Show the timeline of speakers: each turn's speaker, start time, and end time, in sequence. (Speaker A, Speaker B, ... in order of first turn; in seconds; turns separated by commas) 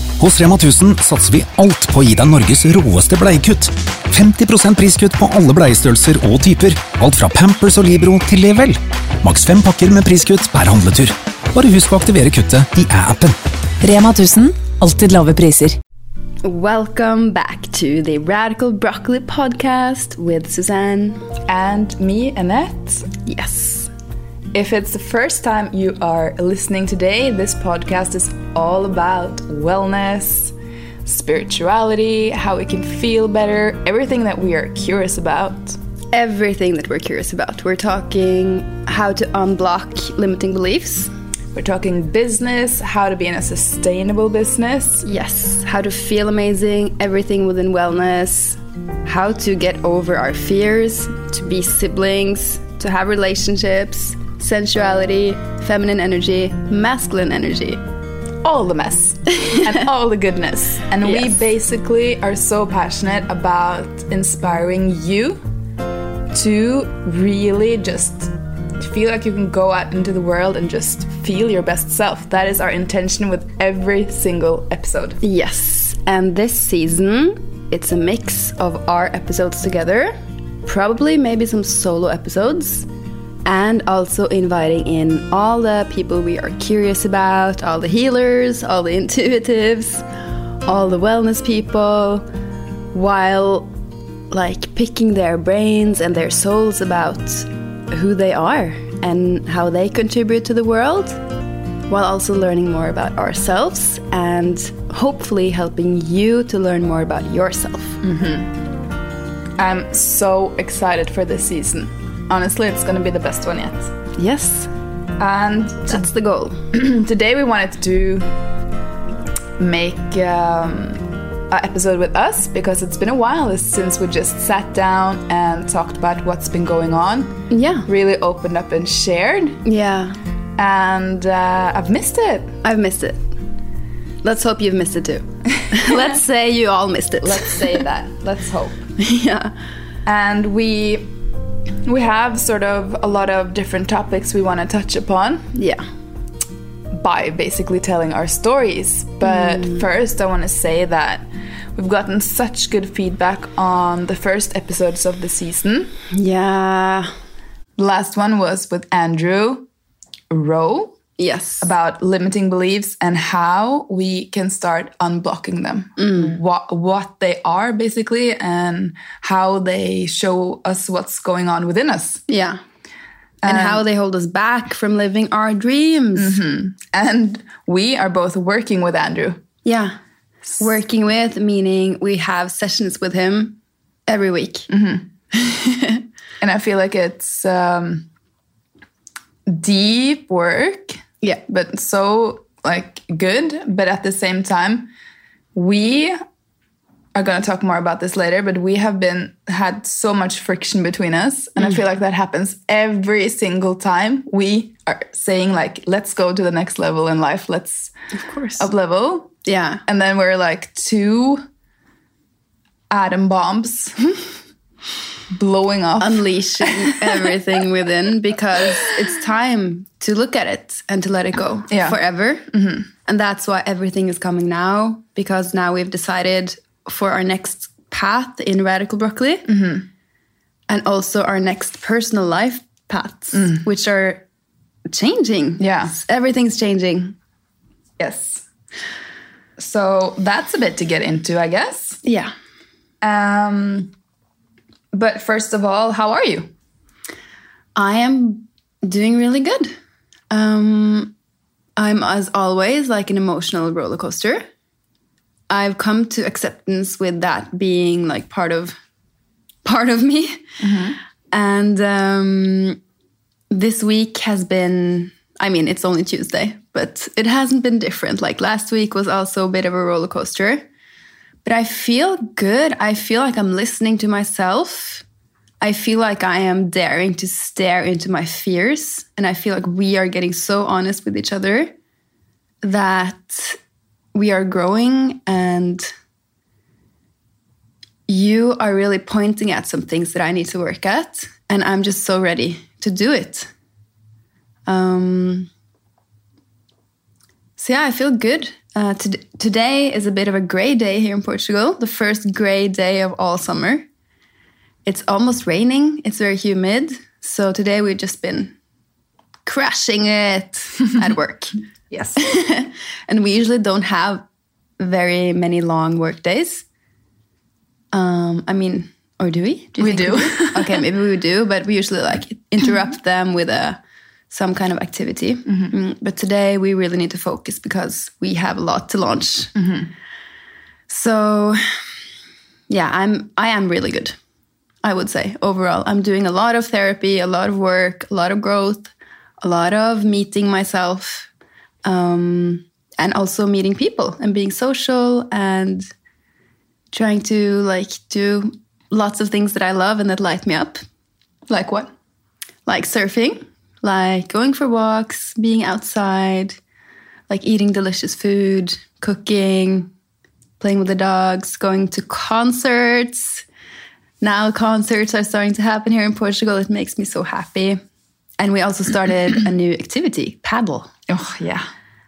Speaker A: 0.2-13.4, Speaker B: 13.8-15.8, Speaker C: 16.4-21.2, Speaker D: 21.5-23.1, Speaker C: 23.2-23.9, Speaker D: 24.5-30.5, Speaker D: 31.1-35.8, Speaker C: 36.1-41.1, Speaker D: 41.5-45.1, Speaker C: 45.0-57.8, Speaker D: 58.4-65.4, Speaker C: 61.0-61.3, Speaker D: 66.3-75.2, Speaker C: 75.2-82.9, Speaker C: 83.5-90.0, Speaker C: 90.7-92.3, Speaker C: 92.9-93.7, Speaker C: 94.3-101.2, Speaker C: 101.9-108.0, Speaker D: 108.0-108.5, Speaker D: 109.6-113.9, Speaker C: 114.2-114.7, Speaker D: 115.2-116.0, Speaker C: 115.9-116.6, Speaker D: 116.7-118.4, Speaker D: 119.6-129.6, Speaker C: 127.5-127.9, Speaker C: 129.6-130.2, Speaker D: 130.6-132.6, Speaker C: 132.6-133.3, Speaker C: 134.2-137.8, Speaker D: 135.6-136.2, Speaker D: 137.2-138.8, Speaker C: 139.0-139.5, Speaker D: 140.1-141.1, Speaker D: 141.8-145.5, Speaker C: 145.5-145.8, Speaker D: 146.9-156.0, Speaker C: 149.2-149.8, Speaker C: 156.1-157.1, Speaker D: 157.8-159.7, Speaker D: 160.3-161.0, Speaker C: 161.2-161.7, Speaker D: 161.6-172.2, Speaker C: 166.0-166.4, Speaker C: 172.3-172.6, Speaker D: 173.4-173.8, Speaker C: 173.4-176.4, Speaker D: 176.2-179.4, Speaker C: 179.7-180.0, Speaker C: 180.6-184.7, Speaker D: 184.7-185.1, Speaker C: 185.3-186.1, Speaker D: 186.4-188.1, Speaker D: 189.5-194.9, Speaker D: 195.5-196.2, Speaker D: 197.2-207.9, Speaker C: 208.1-208.7, Speaker D: 208.6-209.3, Speaker C: 209.4-209.8, Speaker D: 209.9-211.4, Speaker D: 212.9-214.0, Speaker D: 215.3-217.3, Speaker C: 216.0-222.5, Speaker D: 221.7-222.0, Speaker D: 222.5-222.9, Speaker C: 223.1-229.5, Speaker D: 229.5-229.9, Speaker C: 230.7-234.2, Speaker D: 233.3-233.6, Speaker C: 234.9-237.2, Speaker D: 235.6-235.9, Speaker D: 238.0-238.4, Speaker D: 239.6-242.0, Speaker C: 242.0-242.3, Speaker D: 243.0-243.9, Speaker D: 244.9-246.5, Speaker C: 247.8-249.8, Speaker C: 250.3-251.1, Speaker C: 251.8-254.4, Speaker C: 255.5-258.8, Speaker C: 259.6-260.5, Speaker D: 260.6-261.0, Speaker C: 261.3-262.8, Speaker C: 263.5-270.7, Speaker C: 271.4-275.0, Speaker C: 275.6-281.7, Speaker C: 282.6-283.6, Speaker C: 284.1-285.9, Speaker C: 288.1-293.5, Speaker C: 294.7-295.5, Speaker C: 297.6-303.9, Speaker C: 304.9-308.5, Speaker C: 309.5-311.6, Speaker D: 311.9-312.2, Speaker C: 312.2-314.2, Speaker C: 314.8-316.6, Speaker C: 317.9-323.8, Speaker D: 319.8-320.8, Speaker C: 324.3-329.6, Speaker D: 325.5-325.7, Speaker D: 329.6-329.9, Speaker C: 330.9-331.8, Speaker C: 332.7-334.2, Speaker C: 334.8-341.3, Speaker C: 341.9-345.9, Speaker C: 346.9-350.8, Speaker D: 351.5-351.9, Speaker C: 352.7-356.6, Speaker C: 357.3-359.9, Speaker C: 360.6-363.4, Speaker C: 364.2-367.8, Speaker C: 368.4-370.9, Speaker D: 371.1-371.7